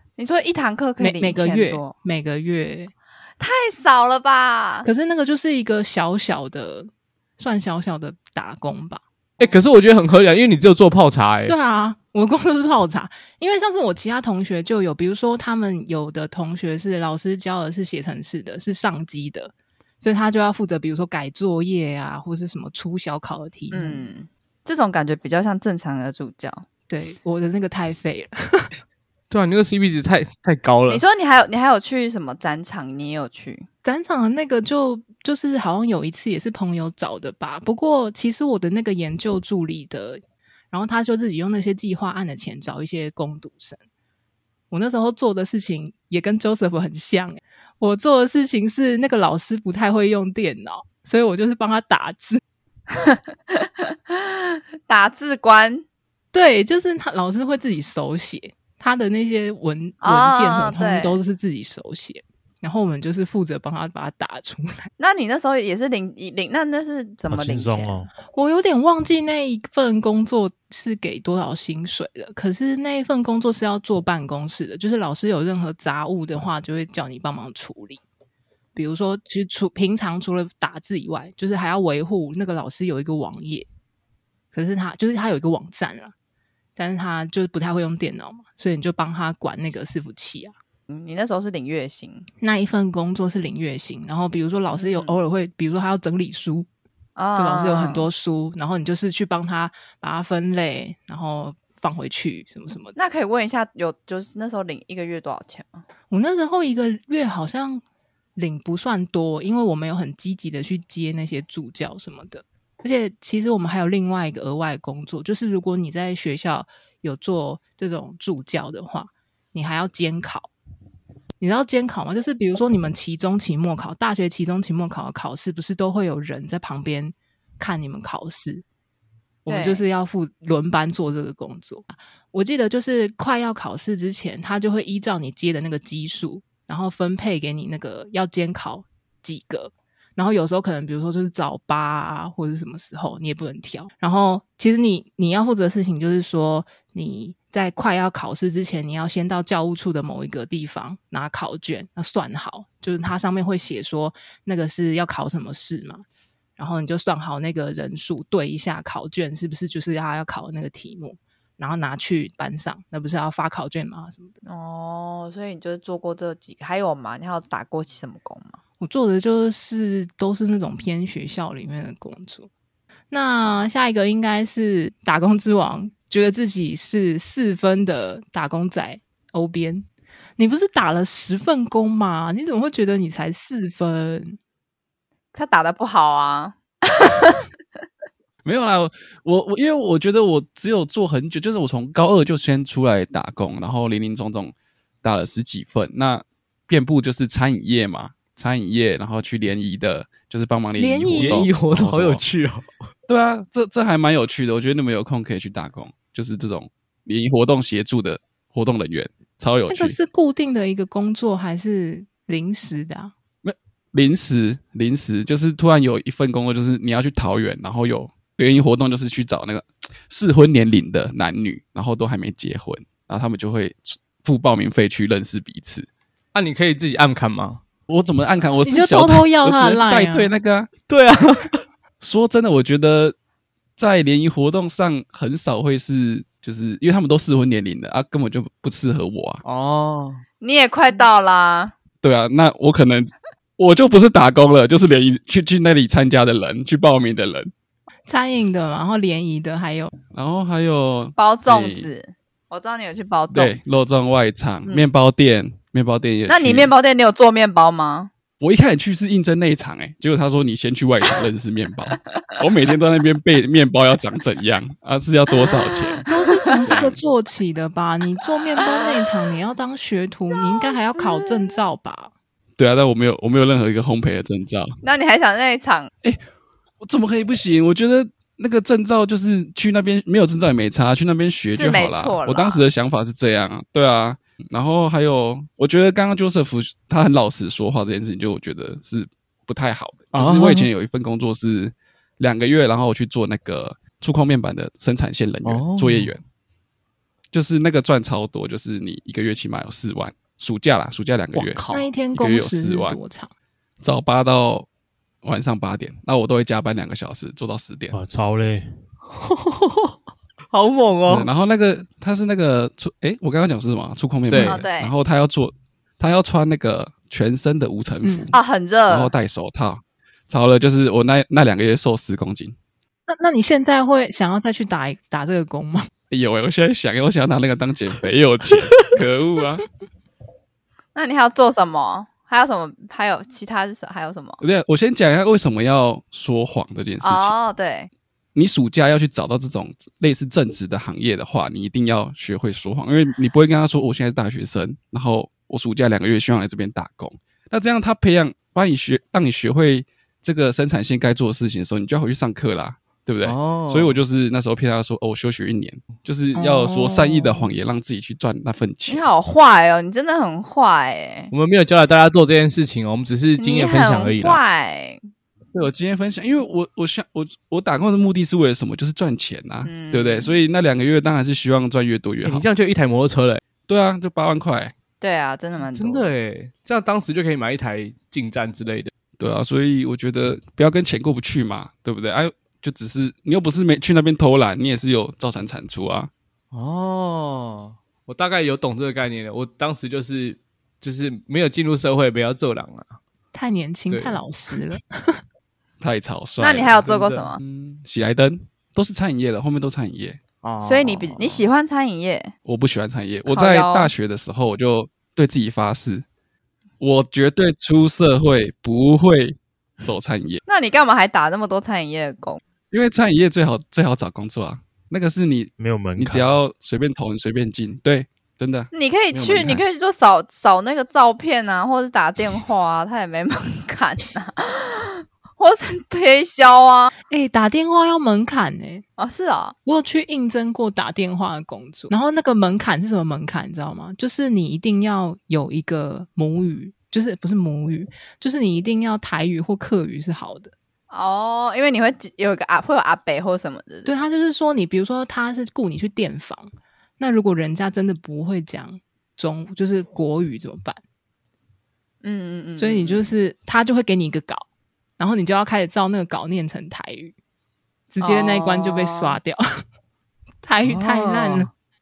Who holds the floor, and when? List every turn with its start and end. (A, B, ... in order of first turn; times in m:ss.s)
0:00.2-0:02.0 A
0:01.0-0:02.9 B
0:03.4-0:04.9 A
0:04.8-0:09.0 B
0:09.4-0:11.6 C
0:11.5-0:24.0 B
0:23.7-0:26.7 A
0:26.9-0:28.7 B
0:29.3-0:31.0 C
0:30.9-0:33.7 A
0:33.8-0:43.8 B
0:44.7-0:52.4 B
0:53.0-0:55.8 A
0:56.3-1:04.9 B
1:00.0-1:01.2 A
1:05.0-1:07.9 A
1:07.3-1:08.1 D
1:08.3-1:18.0 B
1:18.8-1:23.7 B
1:24.5-1:26.1 B
1:26.8-1:30.5 B
1:30.9-1:32.3 A
1:32.4-1:36.7 B
1:34.8-1:35.2 A
1:37.2-1:38.1 A
1:37.4-1:43.0 B
1:43.0-1:45.8 A
1:46.1-1:47.8 B
1:48.4-2:00.5 B
2:01.4-2:08.6 B
2:09.4-2:36.0 B
2:09.5-2:09.9 A
2:36.6-2:44.4 B
2:44.4-2:48.6 A
2:48.8-2:52.5 B
2:53.1-3:04.4 B
3:05.3-3:07.4 A
3:08.4-3:22.2 E
3:20.8-3:21.5 B
3:21.1-3:22.7 C
3:23.1-3:30.0 E
3:29.7-3:33.1 B
3:33.4-3:45.9 E
3:46.3-3:47.6 C
3:47.9-3:50.7 E
3:48.6-3:50.3 B
3:50.9-3:51.6 C
3:52.0-3:53.2 E
3:53.8-3:59.4 E
3:59.4-4:00.2 C
4:00.4-4:01.7 A
4:02.0-4:07.5 E
4:08.1-4:09.9 B
4:10.1-4:11.9 E
4:11.2-4:13.6 A
4:13.3-4:16.7 E
4:16.3-4:18.1 A
4:18.4-4:26.1 E
4:25.4-4:26.7 A
4:26.1-4:32.1 B
4:26.7-4:27.0 E
4:28.6-4:29.0 A
4:30.3-4:31.6 A
4:32.6-4:34.8 E
4:34.8-4:35.9 A
4:36.8-4:56.2 E
4:41.5-4:42.6 A
4:50.1-4:50.7 C
4:55.4-4:56.1 C
4:57.3-5:03.0 E
5:01.4-5:01.9 C
5:01.6-5:03.3 B
5:03.8-5:04.7 E
5:05.2-5:08.0 E
5:07.9-5:08.7 D
5:09.1-5:10.0 C
5:10.5-5:11.3 C
5:11.1-5:18.4 E
5:14.3-5:14.6 C
5:14.4-5:14.9 A
5:18.0-5:18.3 B
5:18.3-5:19.1 A
5:18.9-5:22.6 E
5:23.1-5:25.9 B
5:26.1-5:29.7 E
5:31.0-5:34.4 A
5:34.4-5:37.3 E
5:37.0-5:37.9 A
5:38.4-5:59.0 E
5:53.2-5:54.0 C
5:56.4-5:57.5 B
5:58.9-6:01.3 A
6:01.3-6:04.4 C
6:03.4-6:05.1 A
6:05.5-6:12.5 E
6:09.6-6:10.3 A
6:12.2-6:13.4 C
6:13.7-6:14.7 E
6:15.0-6:16.1 A
6:15.6-6:18.9 C
6:19.2-6:26.1 E
6:26.5-6:33.0 C
6:33.3-6:35.2 B
6:33.9-6:34.2 C
6:35.8-6:36.8 E
6:36.4-6:37.4 A
6:36.6-6:37.3 C
6:37.4-6:40.2 E
6:40.4-6:41.4 C
6:40.6-6:42.3 A
6:42.5-6:46.0 E
6:43.3-6:43.9 A
6:46.8-6:50.4 E
6:50.5-6:52.4 A
6:52.7-6:59.6 E
6:55.6-6:56.4 D
6:58.7-7:06.9 A
7:07.1-7:08.8 B
7:09.0-7:09.6 A
7:09.6-7:20.5 B
7:20.9-7:23.9 A
7:23.9-7:30.8 B
7:32.0-7:33.0 A
7:32.6-7:34.4 B
7:35.0-7:37.1 B
7:37.9-7:39.4 B
7:38.0-7:39.2 A
7:40.4-7:41.5 B
7:40.6-7:41.5 C